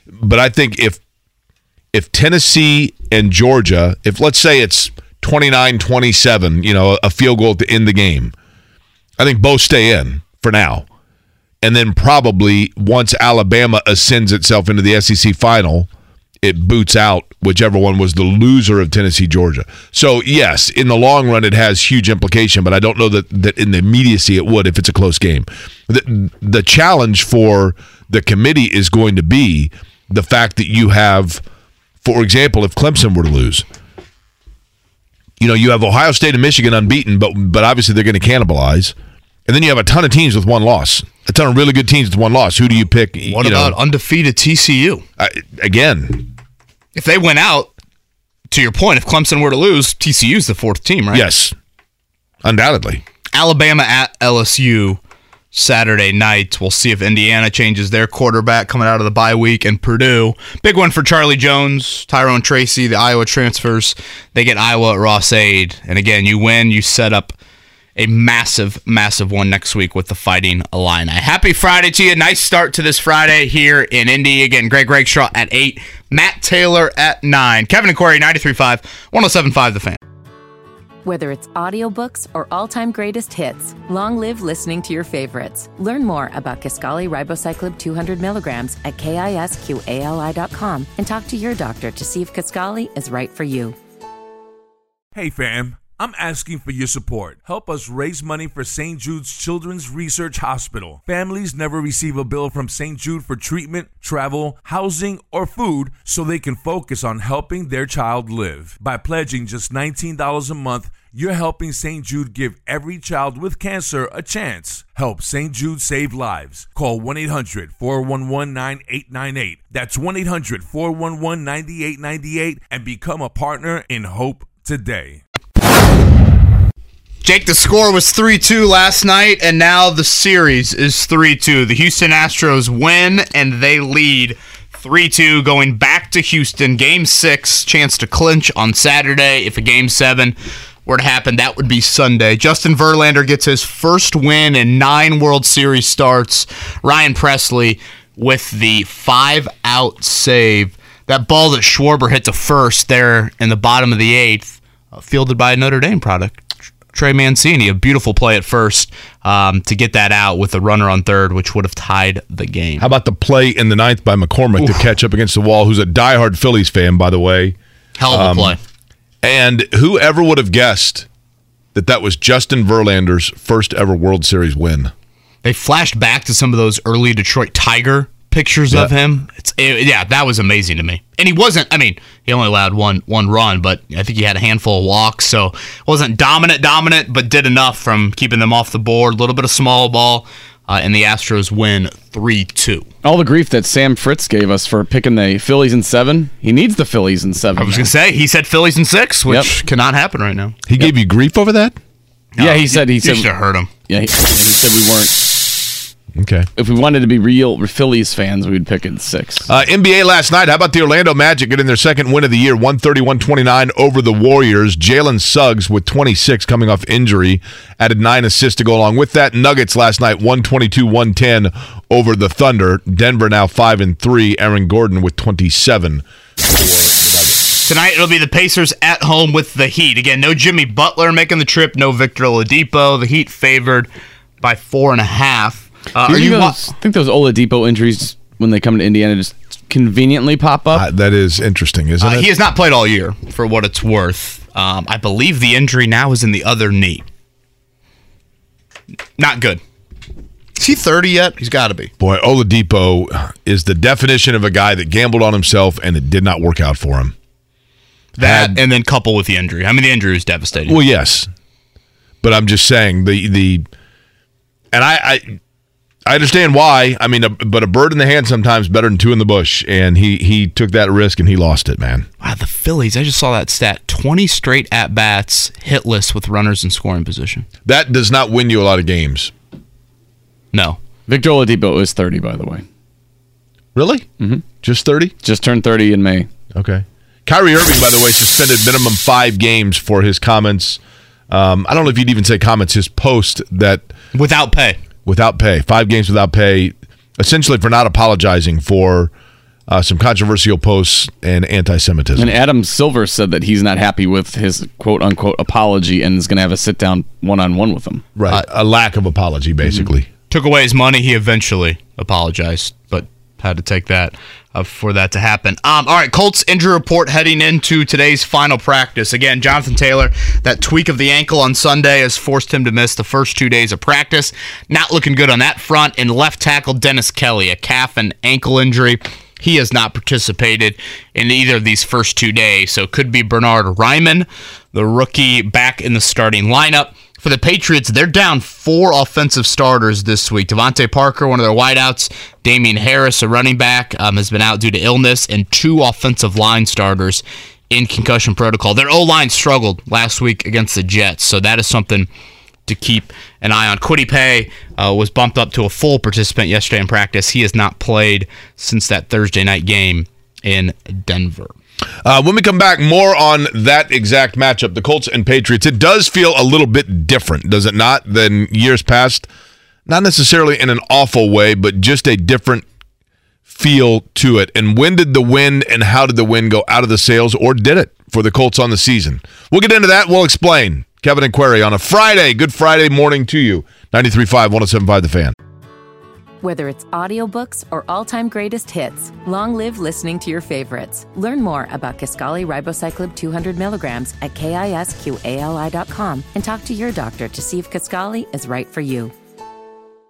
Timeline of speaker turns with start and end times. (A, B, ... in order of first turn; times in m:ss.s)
0:00.1-0:01.0 A
0:01.9-0:08.3 A
0:09.2-0:10.9 A
0:11.6-0:15.9 A
0:16.4-0:31.4 A
0:32.0-0:33.6 A
0:35.4-0:38.9 A
0:39.5-0:43.8 A
0:43.3-0:45.0 B
0:45.2-0:46.3 A
0:46.9-0:47.7 B
0:48.5-0:51.2 B
0:51.1-0:51.5 A
0:52.4-0:53.0 A
0:53.3-0:55.0 B
0:55.5-1:07.4 B
1:08.0-1:20.0 B
1:21.0-1:33.8 C
1:35.1-2:05.2 D
2:07.2-2:42.9 B
2:42.8-2:47.6 A
2:48.0-2:48.6 B
2:48.1-2:48.6 A
2:49.2-2:51.1 A
2:51.7-2:54.9 A
2:55.4-3:12.9 B
3:13.0-3:17.9 E
3:17.6-3:20.6 B
3:19.3-3:19.5 E
3:20.7-3:21.8 A
3:22.4-3:23.7 B
3:22.4-3:23.3 E
3:23.9-3:25.4 E
3:26.2-3:26.5 A
3:26.6-3:29.5 E
3:29.5-3:47.5 A
3:47.6-3:53.9 B
3:54.4-3:56.6 B
3:56.0-4:00.9 E
4:00.7-4:02.3 A
4:02.0-4:07.1 B
4:09.2-4:09.6 B
4:10.6-4:11.9 B
4:12.0-4:17.1 A
4:18.2-4:18.6 A
4:18.2-4:20.8 B
4:20.6-4:21.3 A
4:22.2-4:23.6 A
4:24.7-4:25.4 A
4:26.0-4:32.1 A
4:32.2-4:37.5 B
4:37.6-4:39.3 A
4:40.5-4:40.8 B
4:41.1-4:42.6 E
4:43.7-4:44.1 A
4:44.6-4:45.1 A
4:45.2-4:46.3 E
4:46.5-4:53.9 A
4:54.1-4:54.8 B
4:55.0-4:59.1 A
4:59.7-5:02.3 A
5:02.2-5:08.0 E
5:08.2-5:10.1 A
5:10.3-5:52.1 B
5:52.7-6:01.5 B
6:02.0-6:09.3 A
6:09.8-6:12.6 A
6:13.5-6:25.3 A
6:26.4-6:39.1 C